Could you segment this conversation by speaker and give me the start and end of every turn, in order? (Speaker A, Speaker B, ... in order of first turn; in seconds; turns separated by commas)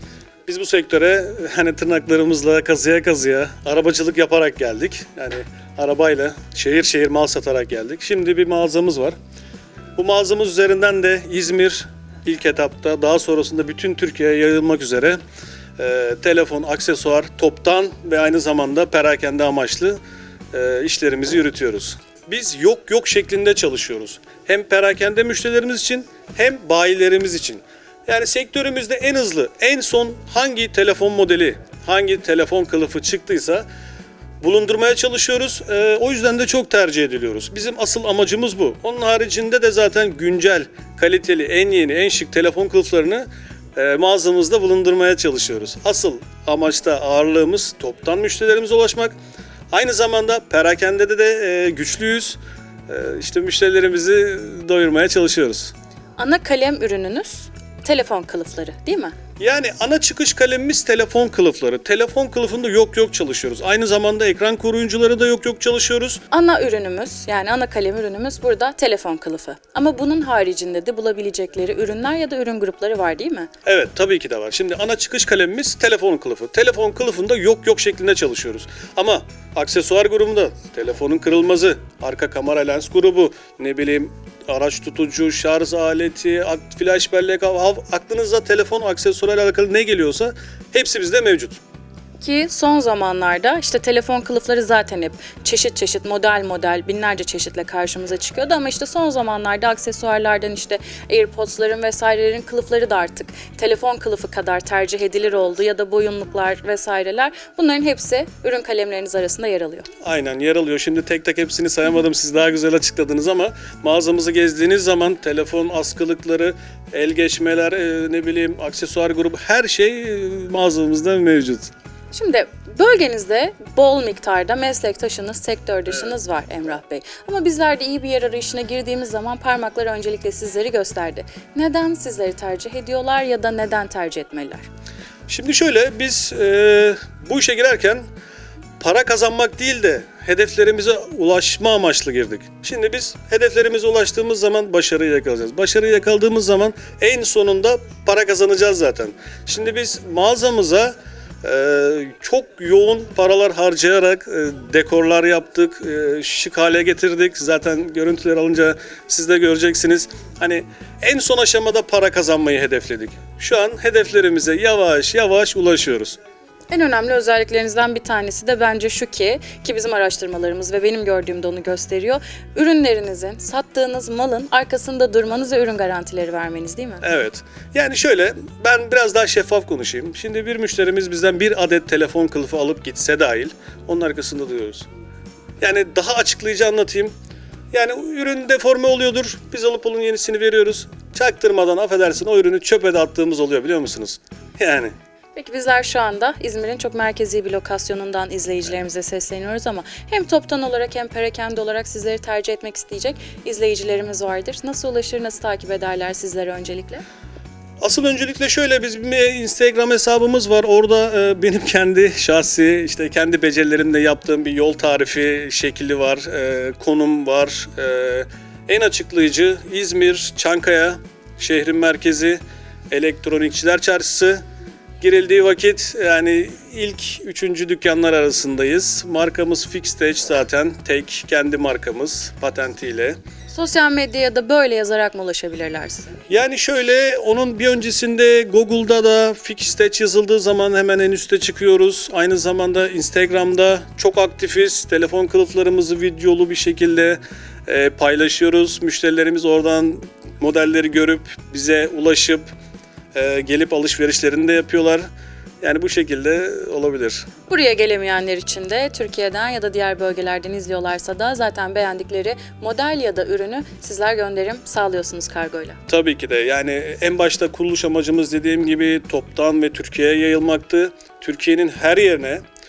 Speaker A: 0.5-9.2, Speaker A: 10.0-15.2, Speaker A: 15.8-20.0, Speaker A: 20.5-33.7, Speaker A: 34.4-49.1, Speaker A: 49.7-55.7, Speaker B: 56.2-59.1, Speaker A: 59.4-66.2, Speaker B: 66.3-73.5, Speaker A: 73.7-91.6, Speaker B: 92.2-109.9, Speaker A: 110.0-121.7, Speaker B: 122.1-134.7, Speaker A: 135.3-138.0, Speaker A: 138.8-166.2, Speaker B: 166.7-177.0, Speaker A: 177.0-184.9, Speaker A: 185.6-187.1, Speaker A: 187.7-194.9, Speaker B: 195.4-207.0, Speaker A: 207.8-224.4, Speaker A: 225.0-233.2, Speaker B: 233.5-236.1, Speaker A: 236.3-252.5, Speaker A: 253.1-255.1, Speaker A: 255.6-257.3, Speaker B: 257.5-265.8, Speaker A: 265.9-272.4